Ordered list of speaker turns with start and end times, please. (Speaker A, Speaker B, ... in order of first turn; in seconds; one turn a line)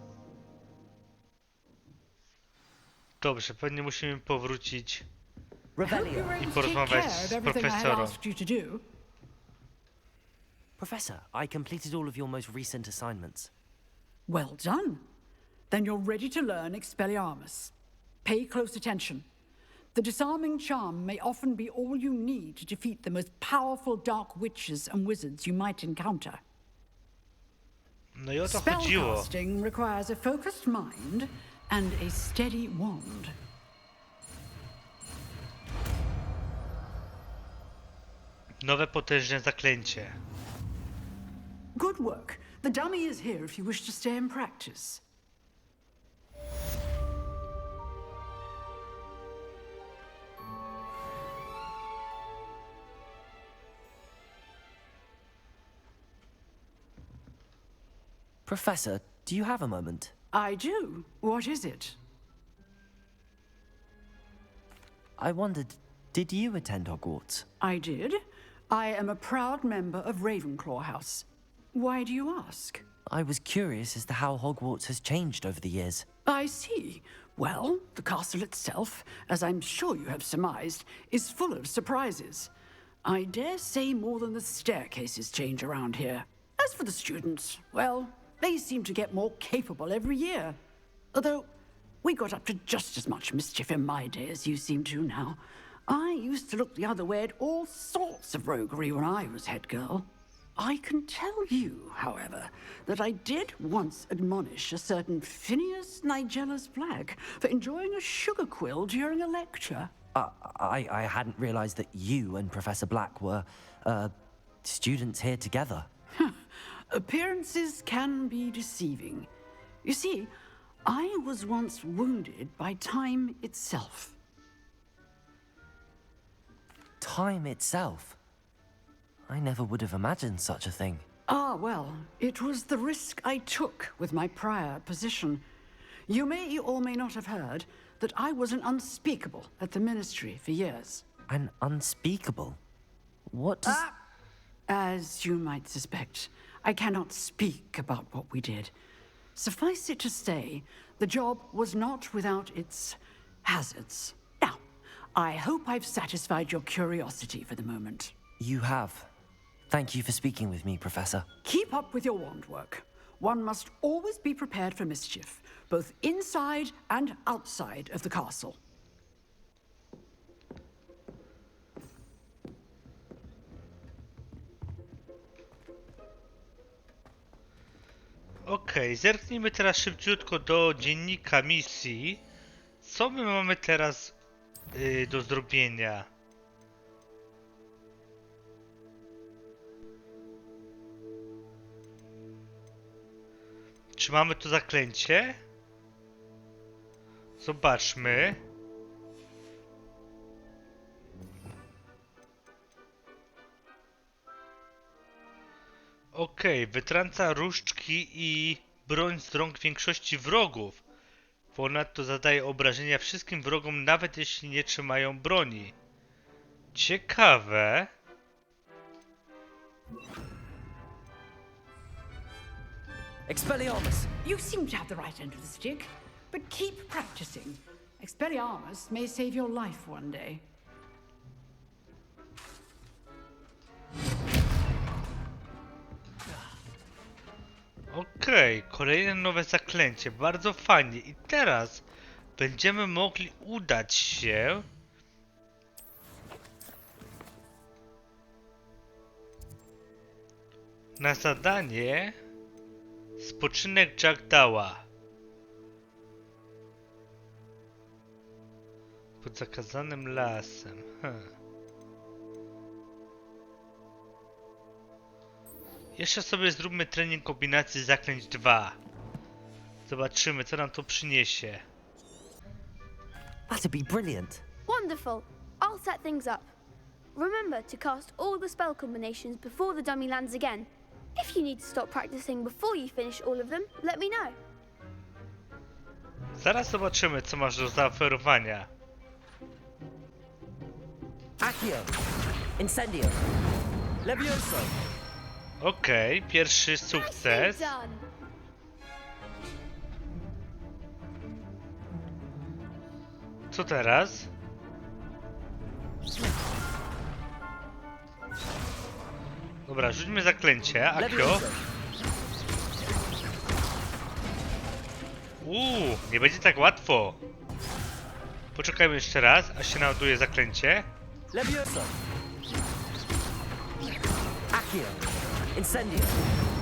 Speaker A: 3.2-5.1
Speaker B: 5.8-6.4
Speaker C: 5.8-8.8
Speaker A: 6.4-8.2
Speaker B: 10.8-13.5
Speaker C: 14.3-15.0
Speaker C: 15.7-17.7
Speaker C: 18.2-19.2
Speaker C: 19.9-26.4
Speaker A: 28.2-29.3
Speaker C: 28.4-33.4
Speaker A: 38.6-40.2
Speaker C: 41.8-45.0
Speaker B: 58.5-60.1
Speaker C: 60.3-62.0
Speaker B: 65.2-67.5
Speaker C: 67.6-68.2
Speaker C: 68.7-72.8
Speaker B: 73.1-76.1
Speaker C: 76.2-82.5
Speaker C: 83.0-90.6
Speaker C: 91.1-91.5
Speaker C: 92.0-109.9
Speaker B: 110.1-115.9
Speaker C: 116.2-119.3
Speaker C: 119.8-120.3
Speaker C: 120.9-124.2
Speaker B: 127.0-128.2
Speaker B: 129.3-131.0
Speaker C: 131.3-135.4
Speaker C: 136.1-141.0
Speaker B: 141.3-142.6
Speaker B: 143.3-143.8
Speaker C: 143.7-144.0
Speaker C: 144.7-148.7
Speaker C: 149.3-154.6
Speaker C: 155.1-158.1
Speaker B: 158.4-159.1
Speaker B: 159.7-161.3
Speaker C: 161.4-168.6
Speaker A: 178.5-182.2
Speaker A: 182.8-184.2
Speaker A: 184.7-186.1
Speaker A: 194.0-195.4
Speaker A: 197.4-198.4
Speaker A: 206.2-210.8
Speaker A: 211.5-215.8
Speaker A: 216.7-217.9
Speaker B: 223.3-224.1
Speaker C: 224.2-230.4
Speaker A: 237.9-241.8
Speaker A: 242.4-244.7
Speaker A: 251.0-252.2
Speaker A: 253.2-254.8
Speaker A: 259.2-261.3
Speaker A: 266.0-268.8
Speaker A: 269.9-271.6
Speaker B: 273.5-274.4
Speaker D: 274.7-276.5
Speaker D: 277.1-284.4
Speaker A: 286.4-288.7
Speaker B: 291.4-292.0
Speaker B: 292.6-293.2
Speaker B: 294.0-294.8
Speaker A: 295.6-297.7
Speaker D: 296.9-298.0
Speaker A: 303.5-304.3
Speaker A: 309.7-311.4
Speaker B: 310.9-311.6
Speaker A: 315.4-317.2
Speaker A: 318.6-320.9
Speaker B: 321.3-321.9
Speaker B: 324.5-326.2